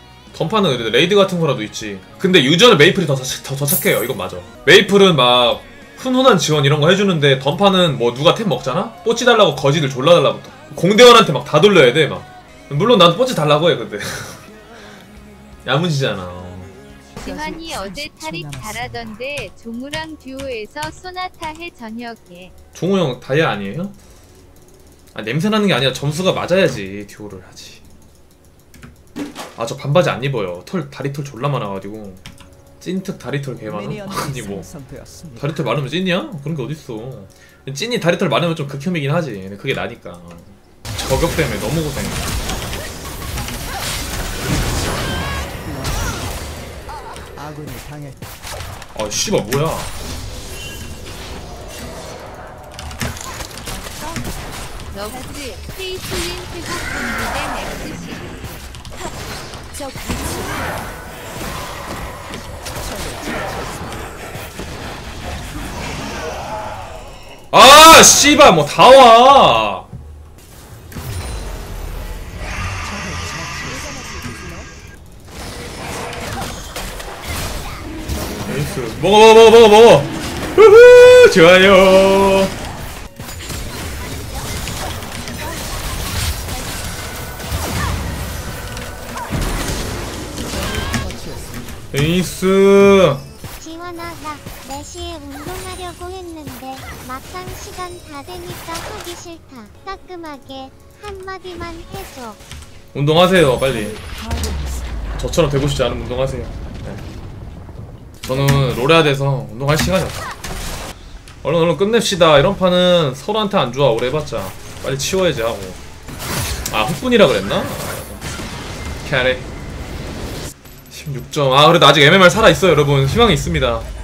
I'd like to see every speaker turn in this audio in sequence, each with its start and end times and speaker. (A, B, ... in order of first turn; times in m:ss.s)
0:00.3-0:14.5 A
0:15.6-0:16.8 A
0:17.2-0:22.5 B
0:22.8-0:24.0 A
0:25.1-0:27.8 A
0:29.6-0:32.2 A
0:32.8-0:34.7 A
0:35.4-0:42.3 A
0:45.2-0:46.1 C
0:47.5-0:48.1 C
0:48.9-0:49.9 A
0:54.9-0:58.7 B
1:07.5-1:09.9 A
1:13.2-1:14.4 C
1:18.4-1:22.5 A
1:30.7-1:31.4 C
1:31.9-1:33.2 A
1:33.6-1:42.4 D
1:42.9-1:44.0 A
1:45.2-1:47.0 A
1:48.2-1:50.3 A
1:51.4-1:55.8 A
1:56.7-1:58.2 A
1:59.0-1:59.5 A
2:00.9-2:03.9 A